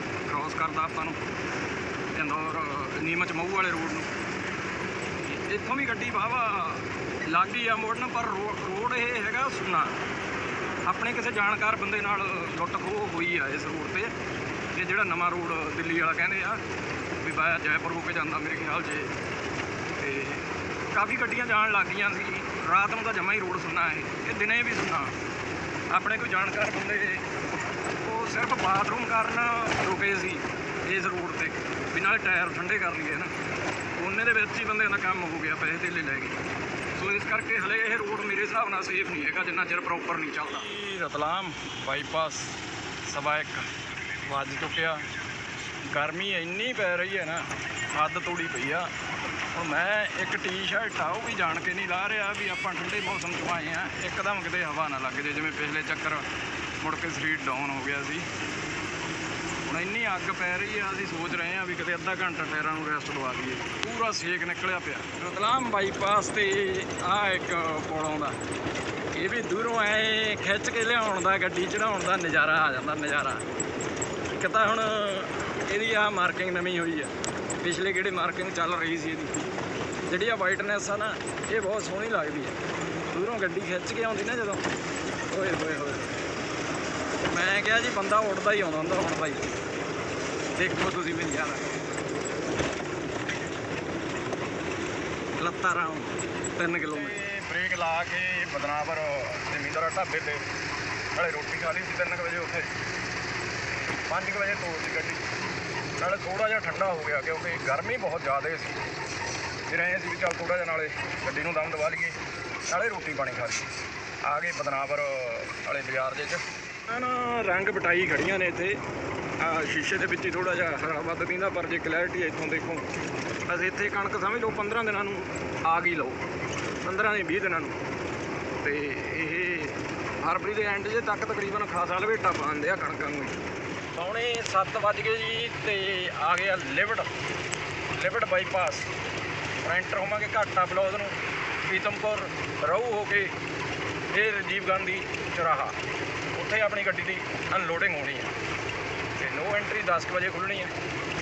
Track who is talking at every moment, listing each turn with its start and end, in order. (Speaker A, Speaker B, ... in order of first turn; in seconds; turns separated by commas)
Speaker A: 0.2-1.2, Speaker A: 2.1-4.1, Speaker A: 5.2-10.0, Speaker A: 10.8-14.1, Speaker A: 14.7-16.6, Speaker A: 17.2-19.1, Speaker A: 20.0-25.1, Speaker A: 25.9-27.4, Speaker A: 28.0-33.3, Speaker A: 34.0-36.4, Speaker A: 37.0-43.7, Speaker A: 44.2-45.0, Speaker A: 45.8-48.9, Speaker A: 49.5-56.3, Speaker A: 56.8-58.3, Speaker A: 59.6-68.4, Speaker A: 69.1-73.5, Speaker A: 74.3-79.5, Speaker A: 80.1-82.6, Speaker A: 83.1-84.7, Speaker A: 85.3-86.2, Speaker A: 87.2-89.6, Speaker A: 90.5-91.8, Speaker A: 95.4-100.5, Speaker A: 101.2-102.7, Speaker A: 104.1-105.2, Speaker A: 106.0-108.8, Speaker A: 109.7-113.7, Speaker A: 114.2-118.8, Speaker A: 119.4-122.9, Speaker A: 123.5-126.2, Speaker A: 126.8-127.8, Speaker A: 128.6-133.4, Speaker A: 133.9-137.1, Speaker A: 137.9-138.9, Speaker A: 139.6-143.3, Speaker A: 144.1-145.8, Speaker A: 146.3-148.3, Speaker A: 149.2-150.7